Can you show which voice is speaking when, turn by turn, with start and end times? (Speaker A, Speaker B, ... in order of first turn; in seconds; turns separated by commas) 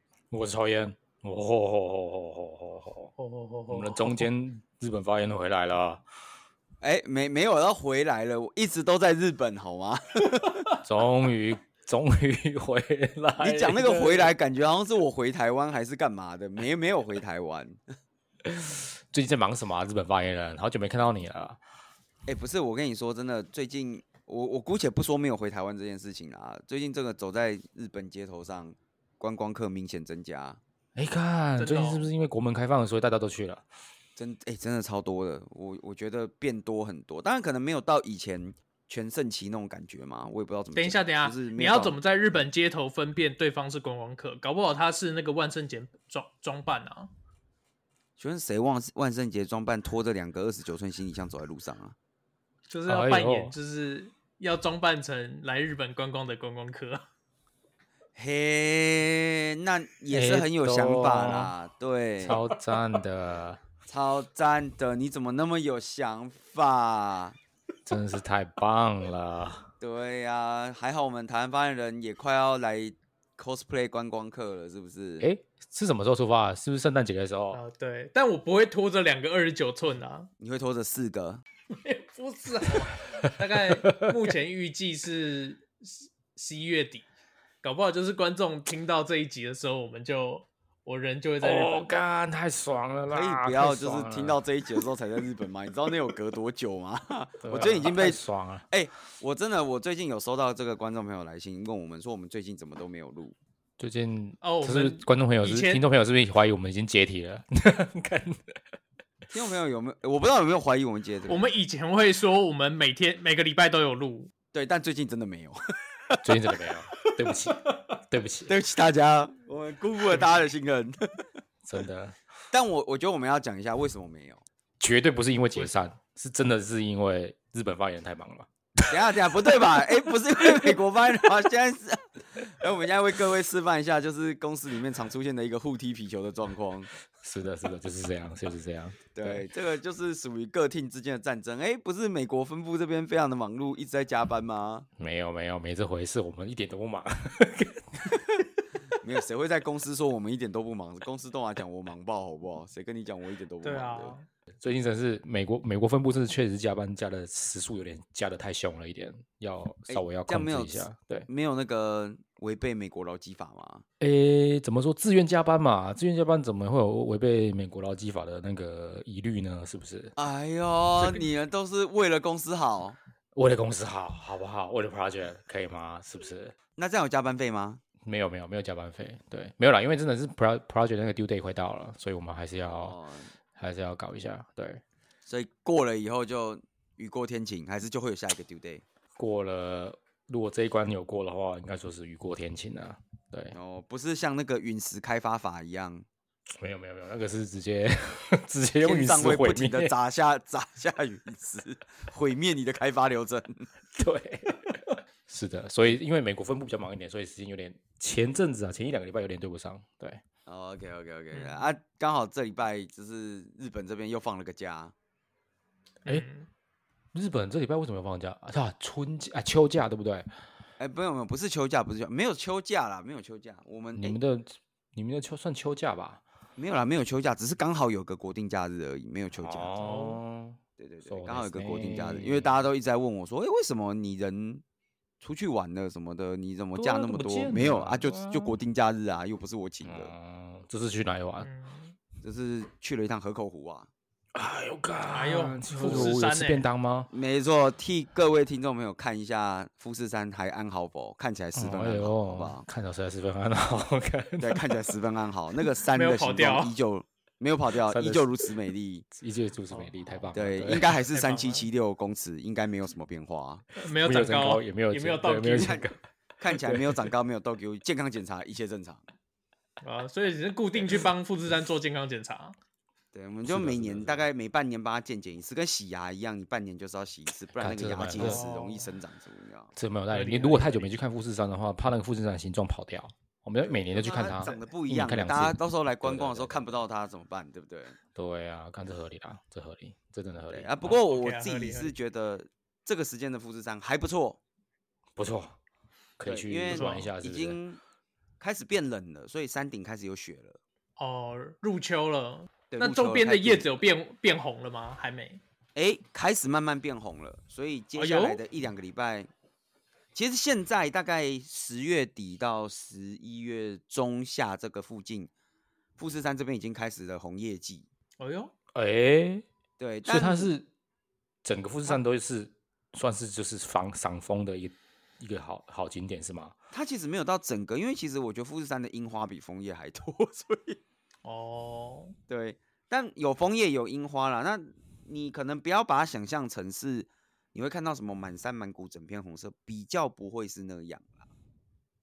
Speaker A: 0.3-3.1, Speaker B: 3.2-4.3, Speaker A: 3.7-6.0, Speaker C: 6.8-10.7, Speaker A: 10.8-14.3, Speaker C: 13.4-17.8, Speaker A: 18.4-21.6, Speaker C: 22.2-30.6, Speaker A: 30.9-33.6, Speaker B: 31.6-32.0, Speaker C: 34.1-42.0, Speaker B: 40.7-47.1, Speaker C: 48.2-52.0, Speaker B: 52.7-57.0, Speaker A: 52.9-53.5, Speaker C: 58.1-62.4, Speaker A: 60.1-61.5, Speaker A: 62.2-63.6, Speaker B: 62.3-62.8, Speaker C: 63.9-67.4, Speaker A: 67.9-69.7, Speaker C: 69.8-75.3, Speaker A: 75.2-77.6, Speaker B: 77.5-80.3, Speaker C: 80.4-81.4, Speaker B: 81.7-87.0, Speaker A: 83.2-84.2, Speaker B: 87.6-91.8, Speaker A: 91.4-94.4, Speaker C: 93.1-103.3, Speaker A: 97.4-98.6, Speaker A: 103.8-108.5, Speaker B: 104.4-105.8, Speaker C: 109.3-111.4, Speaker B: 111.3-114.3, Speaker C: 114.5-116.5, Speaker A: 116.2-118.5, Speaker C: 118.5-121.2, Speaker A: 121.6-122.2, Speaker C: 122.5-124.4, Speaker A: 124.8-128.9, Speaker C: 128.9-136.9, Speaker A: 137.1-139.4, Speaker C: 139.1-144.9, Speaker A: 145.0-148.3, Speaker C: 149.0-154.2, Speaker B: 153.6-154.2, Speaker A: 154.6-161.3, Speaker C: 159.9-163.8, Speaker A: 164.0-170.1, Speaker C: 170.2-173.0, Speaker A: 173.3-176.6, Speaker C: 176.8-177.8, Speaker A: 178.1-182.9, Speaker C: 182.6-183.3, Speaker A: 183.6-184.8, Speaker C: 185.2-188.8, Speaker A: 189.2-193.5, Speaker C: 193.5-196.1, Speaker A: 196.6-199.9, Speaker C: 198.8-203.7, Speaker A: 203.9-210.2, Speaker C: 210.4-214.9, Speaker B: 211.3-211.6, Speaker B: 216.1-216.5, Speaker A: 217.1-220.3, Speaker C: 220.8-224.2, Speaker A: 223.9-226.2, Speaker C: 226.6-229.7, Speaker A: 229.4-232.5, Speaker B: 229.8-230.2, Speaker C: 230.8-234.6, Speaker C: 235.2-240.1, Speaker A: 236.7-238.6, Speaker A: 239.8-241.5, Speaker B: 241.4-241.9, Speaker C: 242.2-243.9, Speaker A: 244.3-247.1, Speaker B: 245.1-246.6, Speaker C: 245.8-246.1, Speaker C: 247.1-252.6, Speaker A: 251.5-254.9, Speaker C: 254.4-259.1, Speaker B: 255.9-256.7, Speaker A: 257.9-258.5, Speaker A: 259.1-260.9, Speaker B: 259.7-260.2, Speaker C: 260.3-263.6, Speaker B: 261.1-261.7, Speaker B: 263.8-265.8, Speaker A: 264.0-266.0, Speaker C: 265.5-265.9, Speaker C: 266.4-269.1, Speaker A: 266.5-266.9, Speaker B: 269.8-272.6, Speaker C: 273.1-279.7, Speaker A: 273.4-274.3, Speaker A: 277.6-278.4, Speaker B: 278.2-278.9, Speaker A: 279.8-286.6, Speaker B: 280.1-280.9, Speaker C: 283.6-288.0, Speaker A: 288.1-290.9, Speaker C: 290.5-294.4, Speaker B: 290.9-291.9, Speaker A: 295.1-295.6, Speaker A: 296.2-297.6, Speaker C: 296.2-297.8, Speaker B: 296.7-297.1, Speaker C: 298.4-300.6, Speaker B: 301.0-305.4, Speaker C: 302.7-303.8, Speaker C: 305.7-309.3, Speaker B: 308.0-308.4, Speaker C: 310.1-315.3, Speaker C: 316.0-317.9, Speaker B: 318.2-318.5, Speaker A: 318.7-319.4, Speaker C: 319.8-320.5, Speaker A: 320.1-320.7, Speaker A: 321.4-326.5, Speaker C: 326.7-330.8, Speaker B: 331.2-332.1, Speaker C: 332.3-341.3